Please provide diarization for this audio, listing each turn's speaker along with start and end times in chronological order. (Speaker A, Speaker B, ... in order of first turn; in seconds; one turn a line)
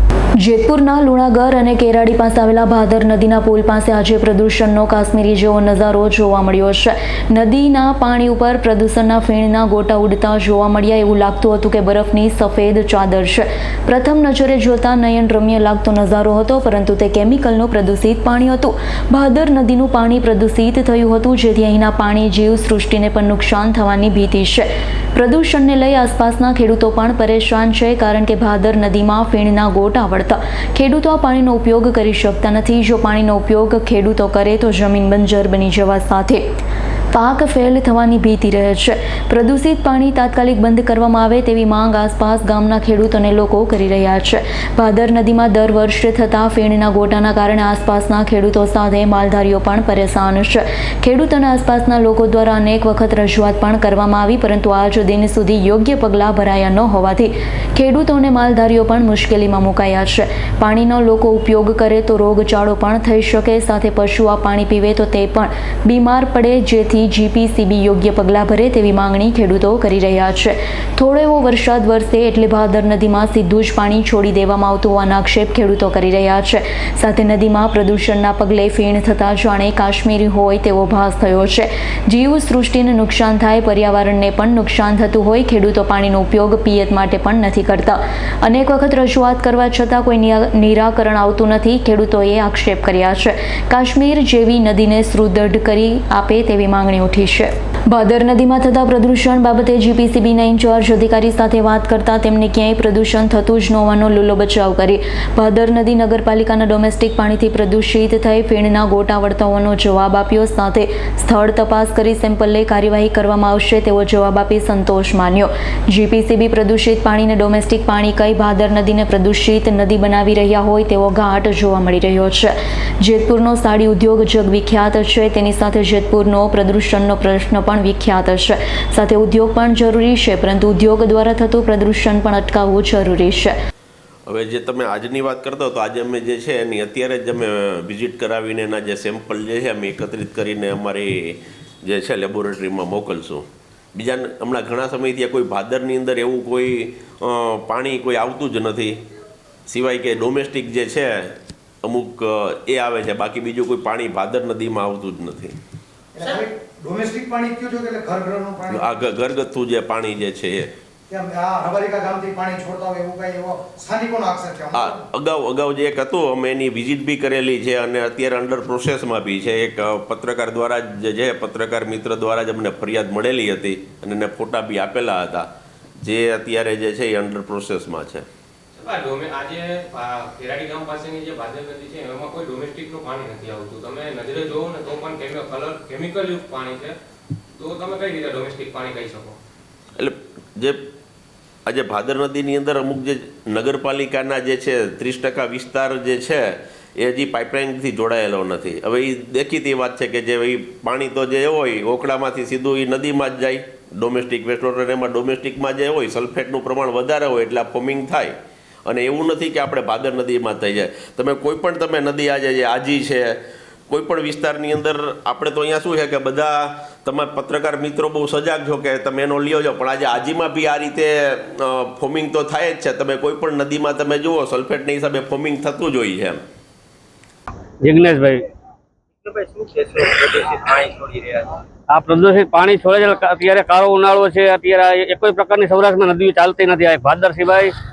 Speaker A: 0.4-36.4
Speaker A: 37.1-133.5
Speaker B: 134.3-149.0
Speaker B: 149.7-155.6
Speaker C: 156.2-158.9
Speaker B: 158.7-160.7
Speaker C: 161.1-165.0
Speaker B: 164.7-175.5
Speaker B: 176.0-178.3
Speaker D: 178.8-186.9
Speaker D: 187.6-189.4
Speaker B: 190.0-190.8
Speaker B: 191.7-226.4
Speaker E: 227.8-228.5
Speaker F: 229.2-231.5
Speaker E: 231.9-237.7